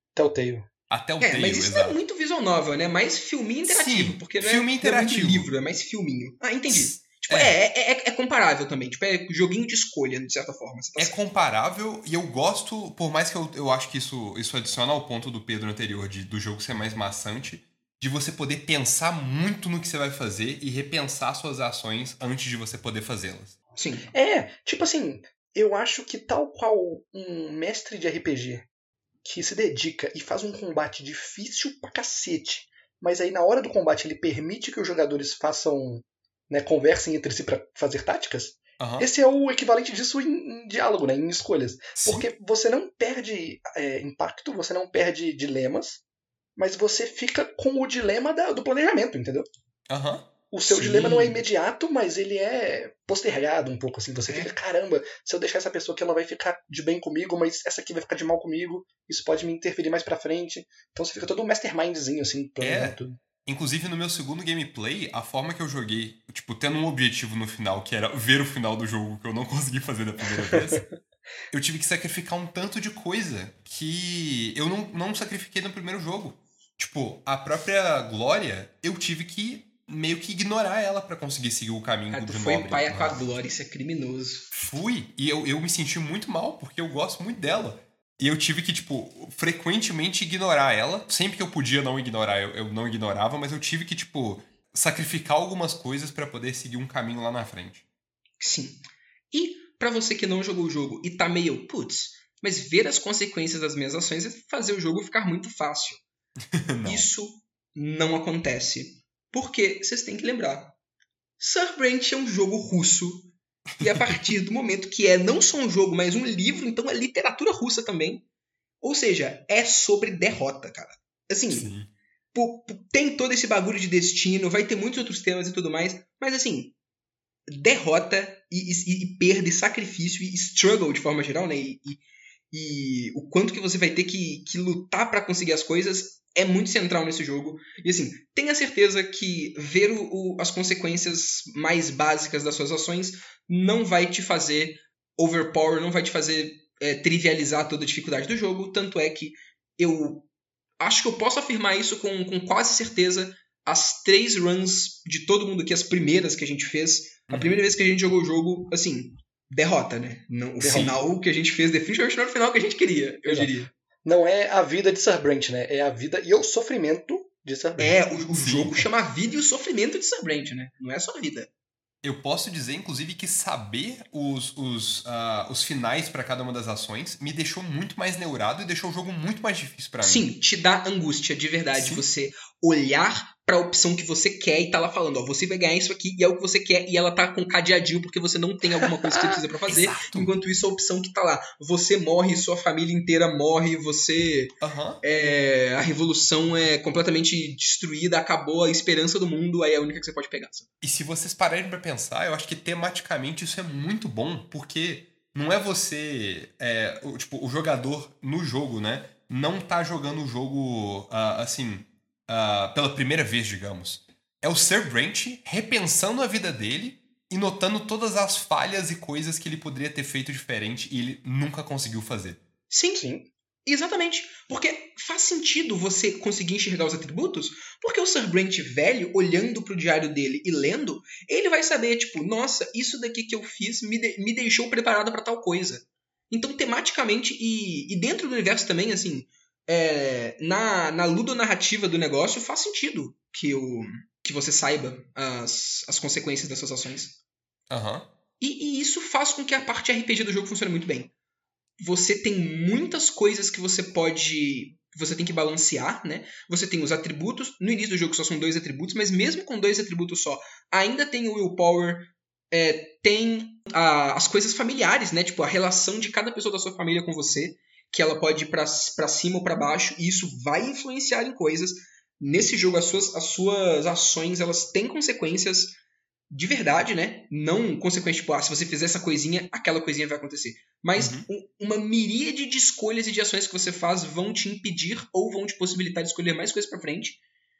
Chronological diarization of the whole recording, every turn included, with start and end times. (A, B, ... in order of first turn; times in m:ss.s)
0:00.2-0:00.7 A
0:00.9-0:02.0 B
0:01.2-0:11.2 C
0:03.6-0:05.5 B
0:06.7-0:07.6 B
0:11.0-0:23.5 B
0:23.8-0:24.1 C
0:24.1-0:28.6 A
0:29.2-0:46.0 A
0:38.8-0:39.1 B
0:42.0-0:42.3 B
0:46.6-0:49.5 A
0:49.9-0:50.3 B
0:50.5-1:03.2 A
0:50.7-0:51.4 C
0:54.2-0:54.5 C
1:02.6-1:10.9 B
1:10.4-1:10.8 A
1:11.5-1:23.2 B
1:22.1-1:24.5 C
1:24.5-1:37.8 B
1:38.4-1:46.0 C
1:46.6-1:47.1 B
1:46.8-1:50.7 C
1:51.4-1:58.2 C
1:53.8-1:54.2 B
1:58.8-2:01.7 C
2:01.5-2:01.9 B
2:02.3-2:06.7 C
2:07.5-2:30.3 C
2:30.8-2:43.7 C
2:37.3-2:37.6 B
2:40.6-2:41.0 A
2:43.2-2:43.5 A
2:44.0-2:48.0 A
2:47.8-2:51.5 C
2:48.3-2:48.9 B
2:52.0-3:00.3 B
3:00.0-3:20.7 C
3:01.7-3:02.0 B
3:09.0-3:09.5 A
3:09.7-3:10.3 B
3:14.6-3:15.0 B
3:20.8-3:42.4 B
3:42.7-3:43.0 C
3:43.0-3:43.3 A
3:43.6-4:07.2 C
4:07.7-4:08.1 B
4:08.4-4:11.1 C
4:11.8-4:35.8 C
4:36.3-4:47.2 C
4:41.0-4:41.3 B